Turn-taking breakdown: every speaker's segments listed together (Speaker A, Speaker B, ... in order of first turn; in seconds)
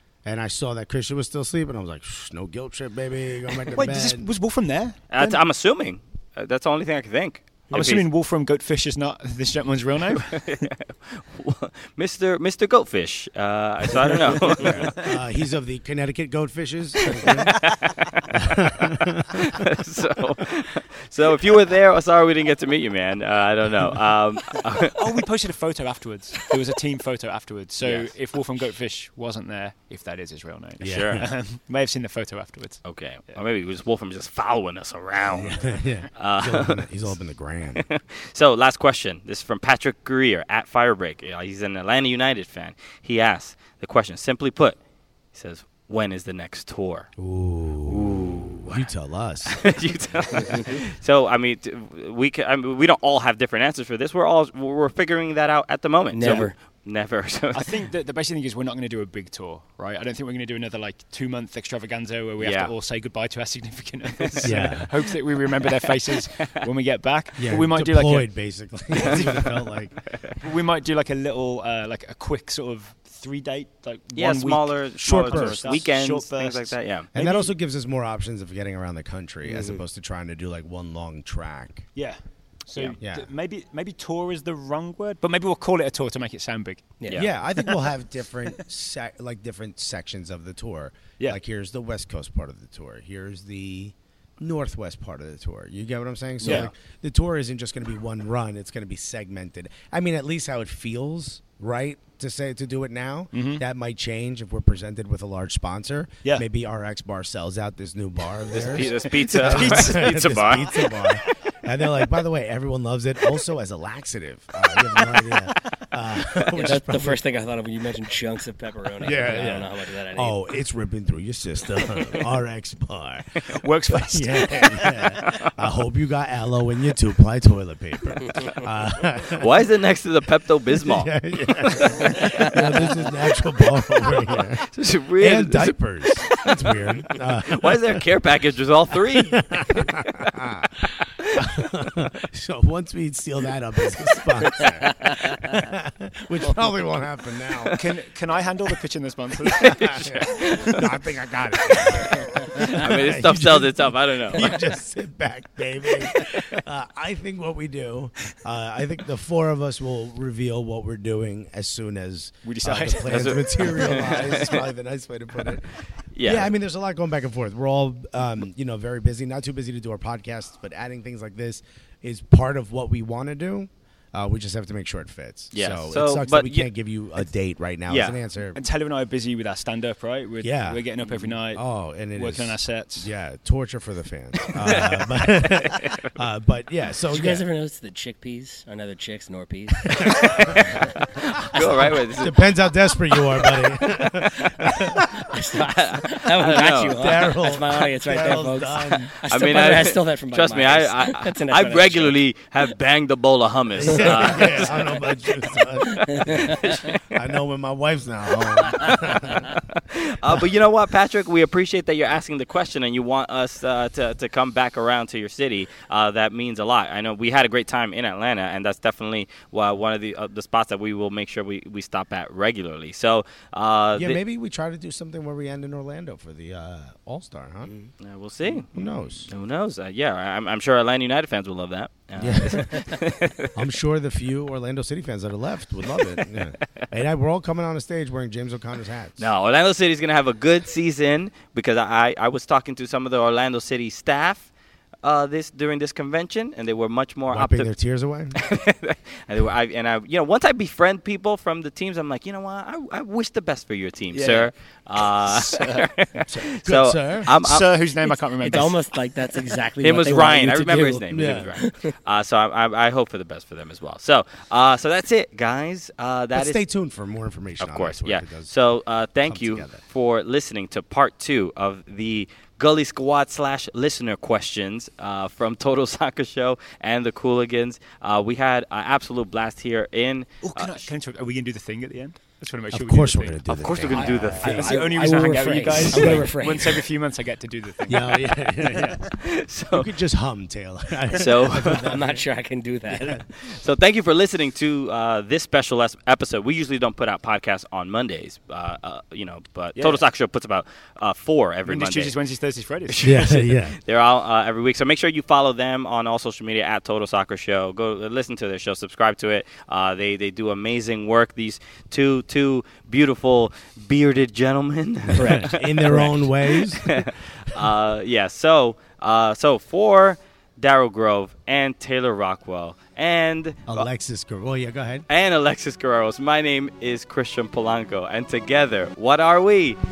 Speaker A: 0.2-4.3, 7.7-8.0, 14.5-17.6, 18.3-19.5, 30.8-31.3, 35.3-37.8, 47.2-49.6, 64.4-64.9, 67.4-70.0, 75.0-75.7, 77.1-81.9, 83.0-83.3, 87.2-117.2, 119.0-129.5, 130.8-138.0, 139.3-147.7, 149.6-165.7, 166.2-178.6, 180.4-180.9, 181.5-187.4, 190.0-191.2, 192.2-195.3, 196.9-199.1, 203.8-209.6, 223.9-227.7, 228.7-229.3, 232.2-232.8, 233.6-239.3, 247.3-248.4, 256.3-257.3, 261.1-261.5, 266.3-268.5, 269.2-269.8, 282.7-286.3, 287.9-289.1, 289.7-292.2, 292.9-293.2, 303.0-303.8, 315.2-317.6, 323.7-325.1
Speaker B: 3.7-5.0, 7.7-10.5, 14.3-15.1, 24.9-33.4, 56.2-56.5, 57.5-68.3, 68.9-69.5, 70.4-77.5, 82.0-86.9, 96.4-96.7, 103.3-103.6, 108.5-110.5, 119.0-119.6, 123.5-125.0, 147.8-150.2, 162.4-163.2, 178.6-183.1, 254.1-254.5, 255.3-255.8, 257.3-258.8, 280.4-289.0, 299.8-300.1, 301.7-303.3
Speaker C: 5.1-8.1, 10.2-14.9, 17.5-18.1, 19.3-25.1, 27.8-28.1, 30.8-31.2, 32.9-36.9, 37.8-44.8, 45.3-47.1, 47.9-48.9, 49.5-57.7, 62.4-62.7, 69.1-69.5, 74.2-77.1, 108.5-111.2, 129.4-132.4, 134.7-136.4, 137.4-139.9, 149.6-150.9, 152.6-154.6, 163.0-164.6, 166.1-166.5, 175.5-176.7, 177.9-178.2, 191.4-192.4, 195.7-197.2, 199.3-205.0, 206.5-207.2, 208.8-224.2, 227.9-228.8, 229.3-233.5, 239.2-244.5, 245.0-247.7, 248.3-257.8, 259.8-266.6, 267.6-280.9, 283.5-285.0, 289.1-289.9, 291.1-291.9, 293.4-302.1, 302.9-323.9, 325.1-329.8
Speaker D: 56.1-56.5, 79.5-79.8, 87.0-87.3, 96.4-96.7, 116.6-120.4, 187.1-190.7, 195.3-202.2, 206.0-206.4, 258.4-261.9, 284.5-286.8, 291.7-293.2, 315.1-316.1